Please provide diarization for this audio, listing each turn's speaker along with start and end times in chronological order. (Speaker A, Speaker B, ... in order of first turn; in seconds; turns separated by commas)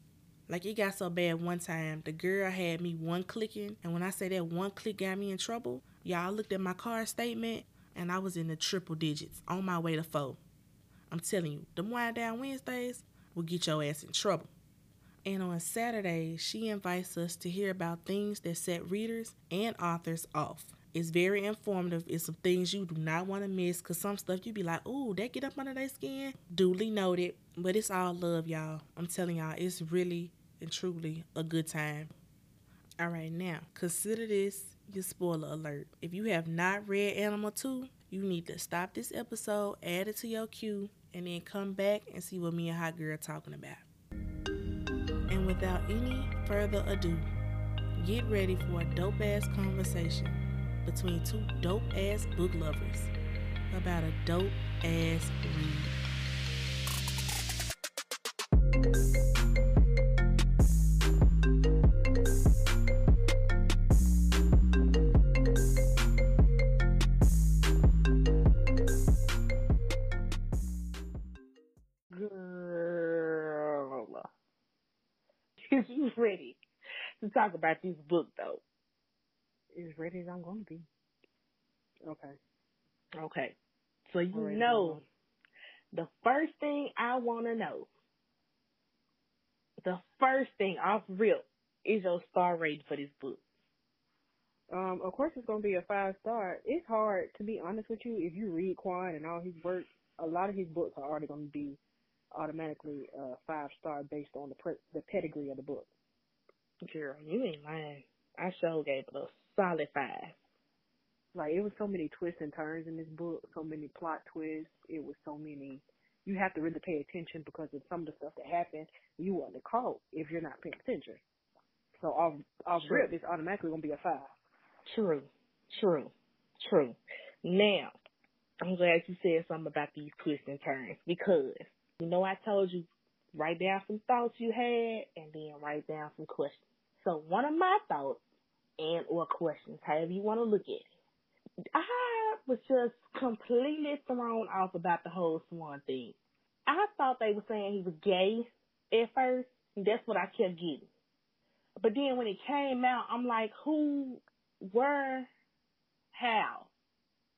Speaker A: 0.5-10.4, Speaker A: 11.1-14.5, Speaker A: 15.2-32.1, Speaker A: 33.0-43.8, Speaker A: 45.3-47.3, Speaker A: 48.0-53.1, Speaker A: 53.7-55.9, Speaker B: 72.1-74.3, Speaker B: 75.7-76.6, Speaker B: 77.2-78.6, Speaker C: 79.7-80.9, Speaker C: 82.0-82.4, Speaker B: 83.2-83.5, Speaker B: 84.1-85.0, Speaker C: 84.3-85.0, Speaker B: 85.9-87.9, Speaker B: 89.8-93.4, Speaker C: 94.7-101.8, Speaker C: 102.3-105.9, Speaker B: 106.8-110.3, Speaker C: 111.3-121.2, Speaker C: 122.0-124.3, Speaker B: 122.8-123.1, Speaker B: 124.9-127.9, Speaker B: 128.6-138.2, Speaker B: 138.8-140.8, Speaker B: 141.7-146.1, Speaker B: 146.7-150.9, Speaker B: 151.8-155.3, Speaker B: 156.1-156.7